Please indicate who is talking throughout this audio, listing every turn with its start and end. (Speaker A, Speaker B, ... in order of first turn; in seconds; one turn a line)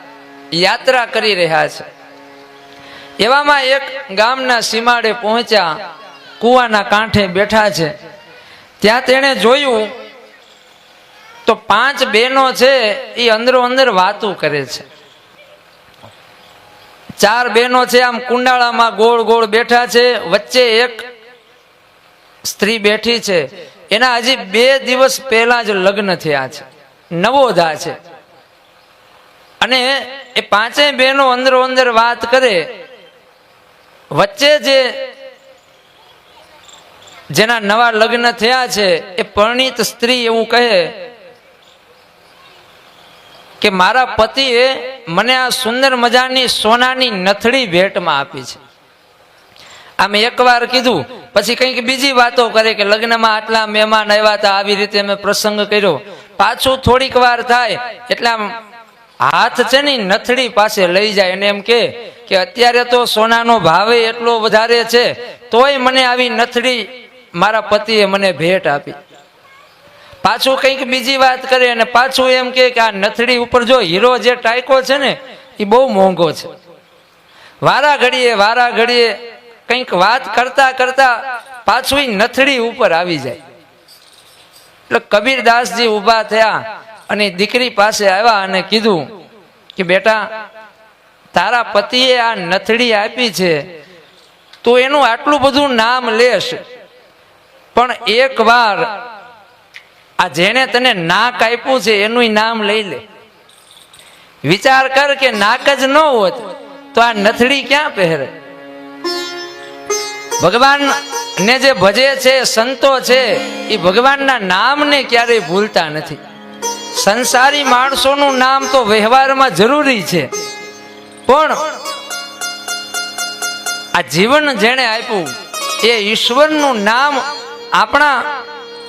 Speaker A: 0.5-1.9
Speaker A: 3.2-5.7
Speaker A: 6.4-7.9
Speaker A: 8.8-9.9
Speaker A: 11.5-14.8
Speaker A: 17.2-21.0
Speaker A: 22.4-28.0
Speaker A: 29.6-32.6
Speaker A: 34.1-34.9
Speaker A: 37.3-40.9
Speaker A: 43.6-48.6
Speaker A: 50.0-58.5
Speaker A: 59.2-69.0
Speaker A: 70.2-76.5
Speaker A: 77.6-83.4
Speaker A: 84.9-89.1
Speaker A: 89.8-90.2
Speaker A: 91.3-93.7
Speaker A: 94.6-96.6
Speaker A: 97.7-99.0
Speaker A: 100.2-103.0
Speaker A: 104.5-108.3
Speaker A: 110.4-116.2
Speaker A: 117.0-120.3
Speaker A: 121.3-121.6
Speaker A: 124.0-125.3
Speaker A: 125.8-127.2
Speaker A: 127.7-128.2